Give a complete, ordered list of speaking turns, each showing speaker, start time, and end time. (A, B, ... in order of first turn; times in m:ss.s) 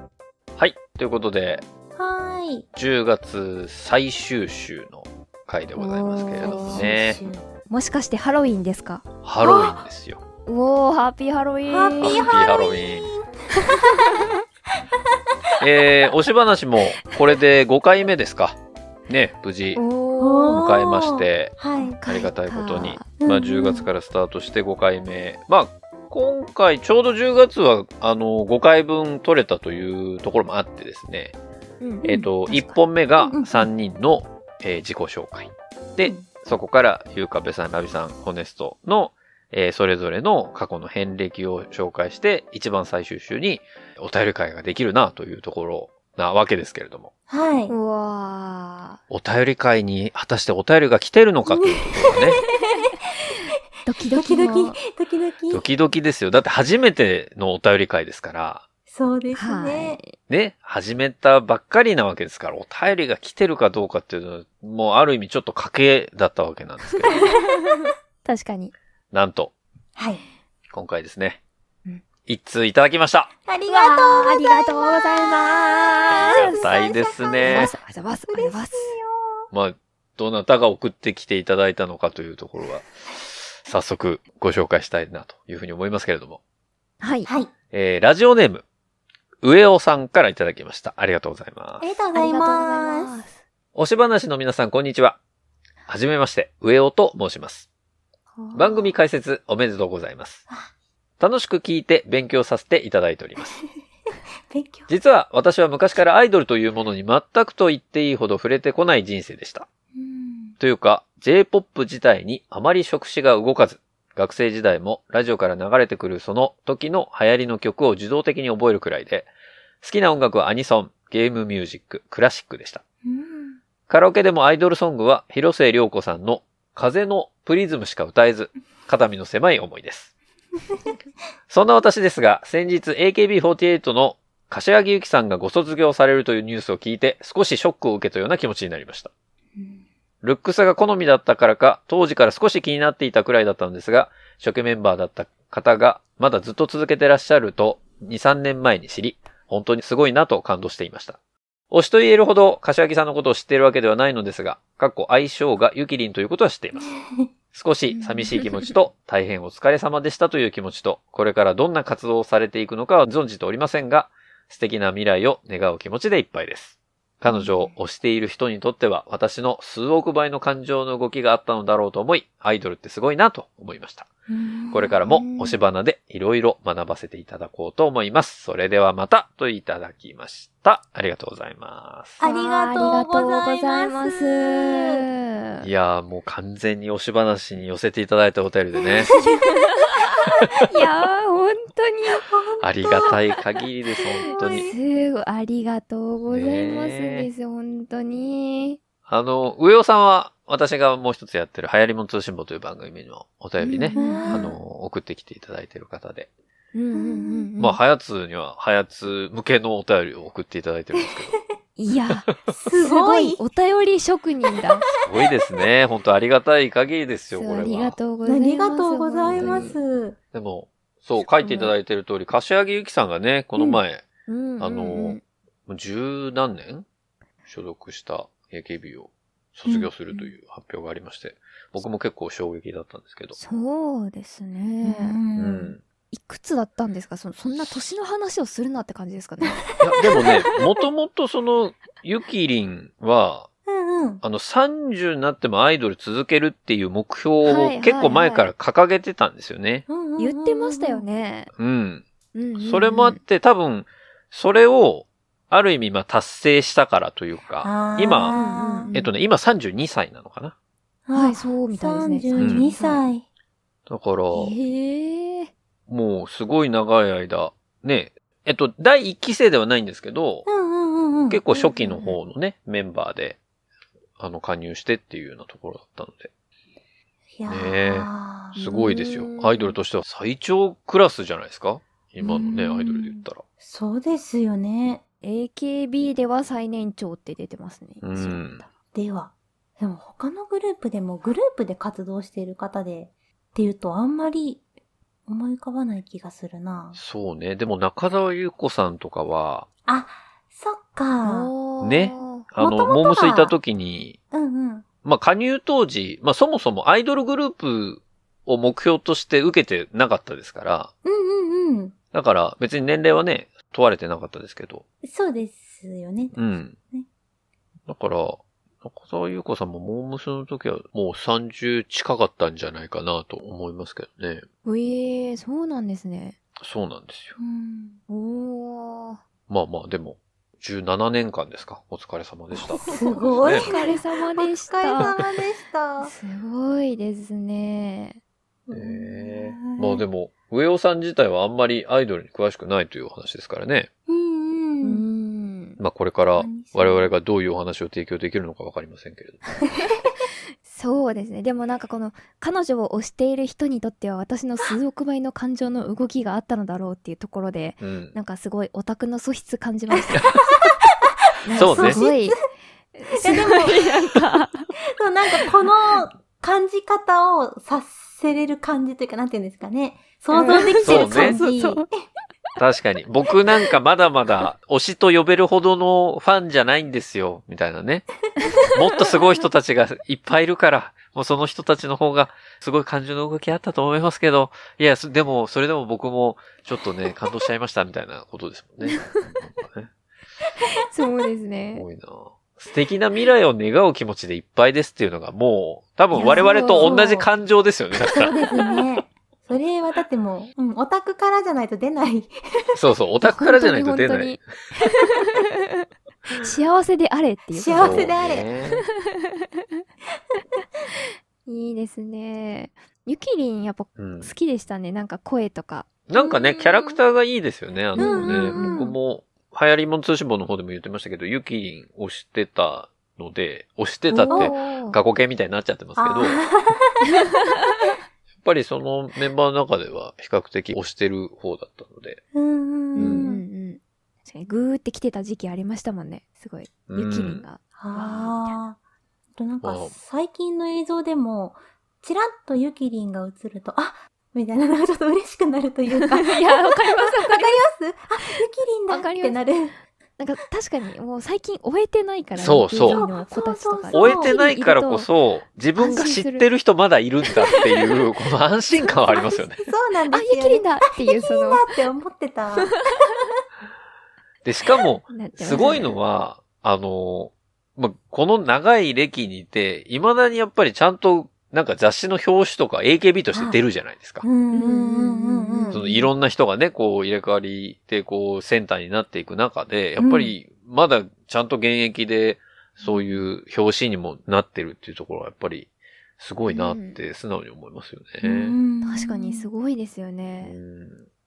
0:00.6-0:01.6 A
0:02.0-0:02.7 B
0:02.8-0:07.2 A
0:05.8-0:06.9 C
0:06.4-0:07.5 B
0:07.7-0:09.8 C
0:09.2-0:10.2 A
0:10.5-0:12.3 C
0:11.7-0:13.3 B
0:12.0-0:13.1 A
0:15.6-0:19.8 A
0:19.7-0:20.6 C
0:20.2-0:22.0 B
0:20.6-0:31.4 A
0:21.8-0:23.1 C
0:23.2-0:23.9 B
0:31.8-0:32.8 C
0:32.0-0:32.3 B
0:32.0-0:47.1 A
0:33.2-0:33.7 B
0:36.0-0:36.3 B
0:47.3-0:47.7 B
0:47.7-0:49.0 C
0:49.1-0:52.4 A
0:51.5-0:51.9 B
0:52.4-0:52.6 C
0:53.8-0:54.8 C
0:54.1-0:55.6 B
0:55.5-0:58.6 A
0:58.9-1:00.0 B
0:59.3-1:00.2 C
1:00.3-1:07.3 A
1:07.1-1:07.5 C
1:07.2-1:07.8 B
1:08.2-1:08.7 C
1:09.1-1:09.5 A
1:10.0-1:10.2 B
1:10.7-1:11.4 A
1:12.3-1:13.3 A
1:13.5-1:17.7 B
1:13.7-1:16.7 C
1:16.2-1:17.7 A
1:17.4-1:18.9 C
1:18.3-1:19.5 B
1:19.5-1:26.4 A
1:27.0-1:27.3 C
1:27.3-1:27.5 B
1:27.7-1:28.6 A
1:29.4-1:32.0 A
1:31.8-1:33.2 B
1:32.1-1:33.4 C
1:33.8-1:35.2 A
1:35.9-1:37.7 A
1:38.4-1:38.9 C
1:38.5-1:40.4 A
1:41.2-1:43.6 A
1:44.5-1:44.9 B
1:44.9-1:49.7 A
1:50.0-1:50.6 B
1:50.6-1:59.3 A
1:59.8-2:02.8 A
2:03.0-2:03.6 B
2:03.9-2:10.1 A
2:11.5-2:19.1 A
2:19.6-2:19.8 B
2:20.2-2:31.2 A
2:31.7-2:36.9 A
2:36.8-2:37.3 B
2:37.5-2:54.1 A
2:37.9-2:38.7 C
2:47.3-2:47.5 C
2:54.3-2:55.0 B
2:54.7-3:02.2 A
2:55.0-2:55.6 C
3:02.2-3:05.0 B
3:02.2-3:05.6 C
3:05.6-3:09.1 A
3:09.1-3:12.3 C
3:12.2-3:12.8 B
3:12.6-3:14.7 A
3:12.9-3:13.1 C
3:14.2-3:14.8 B
3:14.4-3:18.8 C
3:16.3-3:17.3 A
3:19.1-3:26.3 A
3:23.7-3:24.5 C
3:23.7-3:24.6 B
3:26.7-3:27.8 C
3:26.9-3:27.5 B
3:27.6-3:31.4 A
3:31.8-3:34.9 C
3:32.6-3:33.4 B
3:35.0-3:38.0 A
3:37.3-3:39.8 C
3:38.2-3:40.2 B
3:39.3-3:39.8 A
3:40.3-3:44.0 A
3:41.2-3:41.7 C
3:44.3-3:45.2 C
3:44.6-3:46.9 A
3:47.5-3:53.4 A
3:49.6-3:50.2 B
3:53.4-3:55.2 C
3:54.8-3:55.7 B
3:55.4-3:55.8 A
3:56.1-3:59.7 C
3:57.6-3:57.8 A
3:59.8-4:03.5 A
4:03.7-4:04.2 B
4:04.2-4:09.9 A
4:07.4-4:08.5 C
4:09.9-4:11.0 B
4:10.2-4:11.5 C
4:11.6-4:12.1 A
4:12.3-4:13.2 C
4:12.6-4:20.5 A
4:17.6-4:18.9 B
4:18.3-4:19.1 C
4:21.1-4:23.2 B
4:21.1-4:23.0 C
4:22.4-4:22.7 A
4:23.9-4:24.6 A
4:24.3-4:25.5 C
4:25.9-4:30.5 A
4:30.5-4:31.4 B
4:31.3-4:33.4 A
4:31.5-4:32.2 C
4:34.2-4:36.3 A
4:37.3-4:38.6 B
4:37.5-4:43.4 A
4:38.6-4:39.8 C
4:42.2-4:45.0 B
4:45.2-4:48.7 C
4:48.0-4:48.6 A
4:48.9-4:54.6 B
4:55.3-4:57.0 B
4:57.0-4:59.7 A
4:59.9-5:01.5 B
5:01.2-5:02.5 C
5:01.8-5:04.2 A
5:02.6-5:03.6 B
5:04.3-5:04.8 B
5:05.0-5:10.9 A
5:11.0-5:12.0 B
5:12.1-5:14.8 A
5:15.0-5:17.1 B
5:16.4-5:16.8 A
5:17.9-5:24.4 A
5:24.6-5:26.4 C
5:26.6-5:27.4 A
5:27.4-5:28.0 B
5:28.1-5:29.2 C
5:29.5-5:33.7 A
5:32.5-5:35.2 C
5:32.9-5:36.1 B
5:36.0-5:38.2 C
5:38.7-5:40.1 B
5:38.7-5:43.9 A
5:44.1-5:45.1 B
5:44.8-5:45.8 C
5:45.8-5:49.4 A
5:46.4-5:47.1 B
5:50.6-6:00.3 C
5:57.8-5:58.2 A
6:00.1-6:00.8 B
6:01.4-6:02.4 C
6:01.5-6:02.0 A
6:01.5-6:02.3 B
6:02.9-6:04.7 C
6:03.1-6:03.9 B
6:05.0-6:11.9 B
6:10.3-6:11.8 C
6:10.8-6:11.4 A
6:12.6-6:18.1 A
6:18.7-6:29.9 A
6:30.8-6:31.9 C
6:31.7-6:38.4 A
6:36.1-6:37.3 B
6:36.2-6:37.0 C
6:38.0-6:42.8 B
6:42.8-6:44.4 A
6:43.2-6:45.8 C
6:46.4-6:48.2 C
6:47.5-6:48.5 B
6:47.8-6:48.8 A
6:48.7-6:49.2 C
6:51.5-6:55.9 C
6:54.0-6:54.3 A
6:56.1-7:06.4 A
6:56.2-6:57.0 B
6:58.0-6:58.8 C
6:58.0-6:59.0 B
7:04.2-7:05.0 C
7:04.3-7:04.5 B
7:06.0-7:06.9 B
7:08.4-7:12.2 A
7:12.3-7:13.4 B
7:13.0-7:18.6 C
7:13.0-7:13.2 A
7:16.9-7:17.4 A
7:17.8-7:18.8 B
7:19.4-7:29.8 B
7:19.6-7:20.0 A
7:26.2-7:27.6 C
7:28.9-7:29.4 C
7:30.2-7:35.1 C
7:32.4-7:33.0 A
7:32.8-7:34.4 B
7:33.9-7:39.7 A
7:35.8-7:36.5 C
7:35.8-7:36.1 B
7:39.1-7:42.7 B
7:40.1-7:41.8 C
7:44.4-7:54.3 A
7:45.1-7:46.0 C
7:53.3-7:53.6 B
7:54.2-7:55.8 B
7:54.5-7:56.1 C
7:55.7-8:08.6 A
8:00.0-8:00.3 B
8:02.8-8:03.2 C
8:06.5-8:07.0 C
8:08.2-8:09.5 B
8:08.8-8:10.6 C
8:10.4-8:11.0 A